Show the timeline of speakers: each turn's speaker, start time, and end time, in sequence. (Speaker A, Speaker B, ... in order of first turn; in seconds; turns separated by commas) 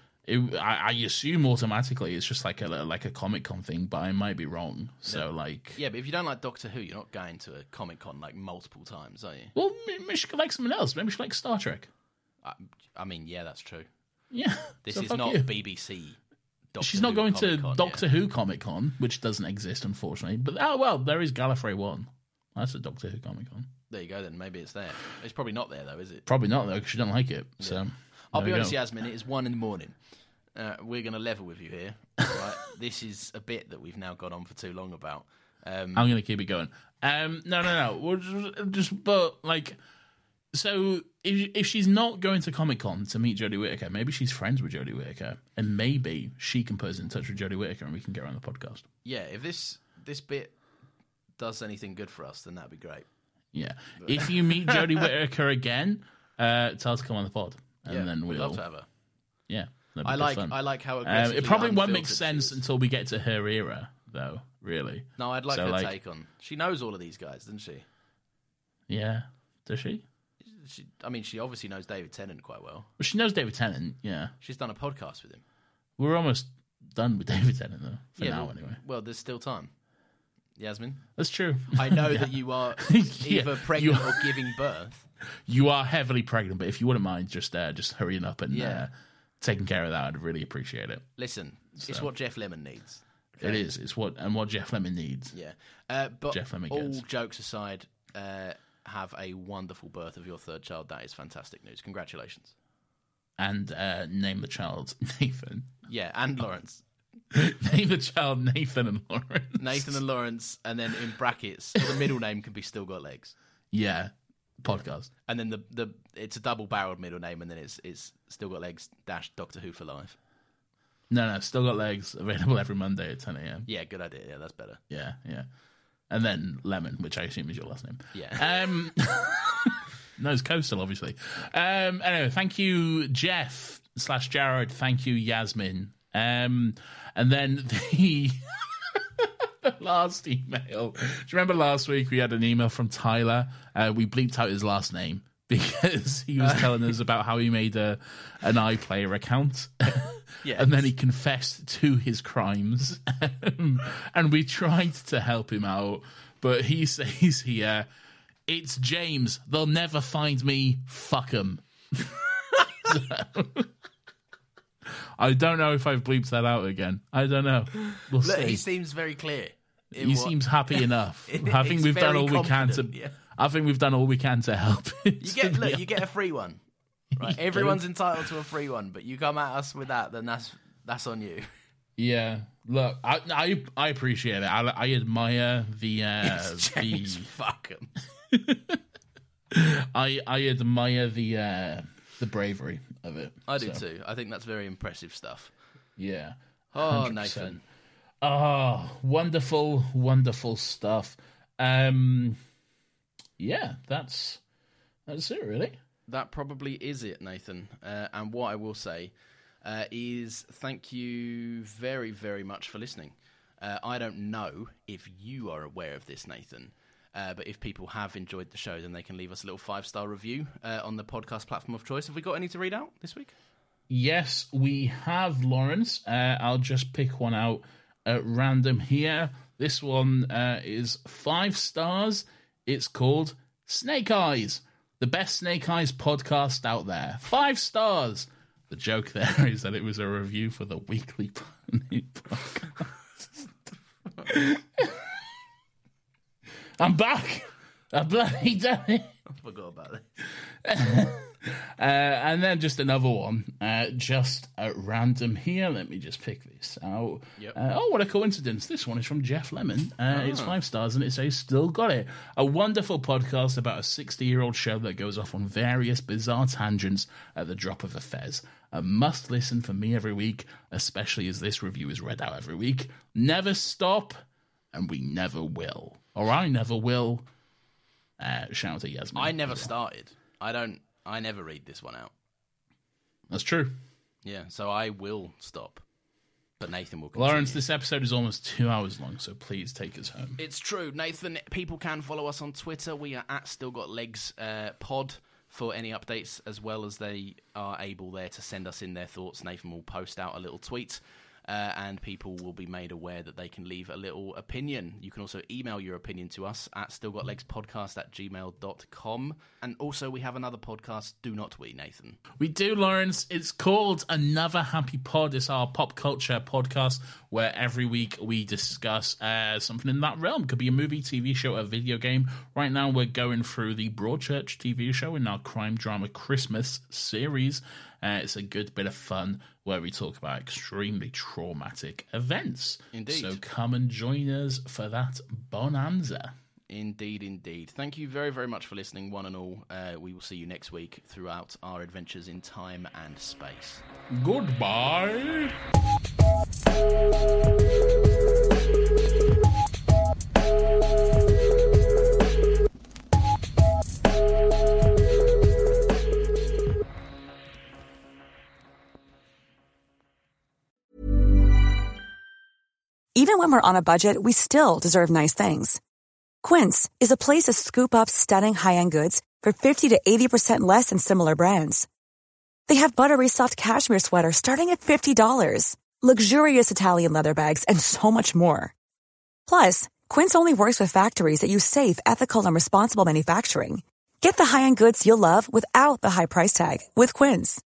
Speaker A: 0.2-5.8, Speaker B: 5.1-9.5, Speaker A: 9.6-11.9, Speaker B: 12.4-13.8, Speaker A: 14.3-15.5, Speaker B: 14.8-16.2, Speaker B: 16.7-18.1, Speaker A: 16.8-23.7, Speaker B: 23.9-26.2, Speaker A: 26.3-28.8, Speaker B: 27.6-29.9, Speaker B: 30.6-36.1, Speaker A: 35.9-39.8, Speaker A: 40.5-48.9, Speaker B: 49.0-50.6, Speaker B: 51.4-53.1, Speaker A: 53.5-58.6, Speaker B: 54.0-55.1, Speaker B: 57.9-58.9, Speaker A: 59.5-65.9, Speaker B: 60.0-62.6, Speaker B: 65.2-67.8, Speaker A: 68.9-70.0, Speaker B: 70.4-72.9, Speaker A: 73.0-74.3, Speaker B: 74.4-75.4, Speaker A: 76.0-78.8, Speaker B: 78.2-79.7, Speaker B: 80.6-81.0, Speaker A: 81.2-84.4, Speaker B: 81.7-85.1, Speaker A: 85.5-91.1, Speaker B: 88.5-88.9, Speaker B: 91.2-93.7, Speaker A: 91.8-92.1, Speaker A: 93.4-95.3, Speaker B: 95.3-102.5, Speaker A: 96.3-97.0, Speaker A: 103.4-105.7, Speaker B: 105.9-106.8, Speaker A: 107.3-110.0, Speaker B: 109.6-113.3, Speaker A: 113.7-115.1, Speaker B: 115.3-120.2, Speaker A: 121.1-123.7, Speaker B: 123.7-124.8, Speaker A: 124.9-125.5, Speaker A: 126.1-157.9, Speaker B: 128.1-128.5, Speaker B: 146.4-146.9, Speaker B: 150.4-150.9, Speaker A: 158.5-163.7, Speaker A: 165.2-168.6, Speaker B: 168.2-173.2, Speaker A: 169.9-176.0, Speaker B: 175.2-176.6, Speaker A: 177.1-177.8, Speaker B: 177.1-181.4, Speaker A: 182.0-187.3, Speaker B: 186.2-187.9, Speaker A: 188.3-188.8, Speaker A: 189.5-193.8, Speaker B: 193.5-195.5, Speaker A: 196.0-197.6, Speaker B: 196.7-197.6, Speaker A: 198.2-202.4, Speaker A: 203.4-204.4, Speaker A: 205.1-205.8, Speaker B: 206.1-223.3, Speaker A: 223.9-243.5, Speaker A: 244.2-245.2, Speaker A: 246.8-249.1, Speaker B: 249.3-250.1, Speaker A: 250.5-274.2, Speaker B: 260.1-260.6, Speaker A: 274.7-277.3, Speaker A: 278.2-279.7, Speaker B: 279.1-282.1, Speaker A: 283.3-283.8, Speaker B: 284.2-285.8, Speaker B: 286.6-287.6, Speaker A: 287.1-290.4, Speaker B: 290.4-312.2, Speaker A: 312.4-336.3, Speaker B: 332.9-333.4, Speaker B: 336.7-343.8, Speaker A: 344.1-345.6, Speaker C: 363.1-365.8, Speaker C: 366.4-371.9, Speaker C: 372.7-378.7, Speaker C: 379.5-387.6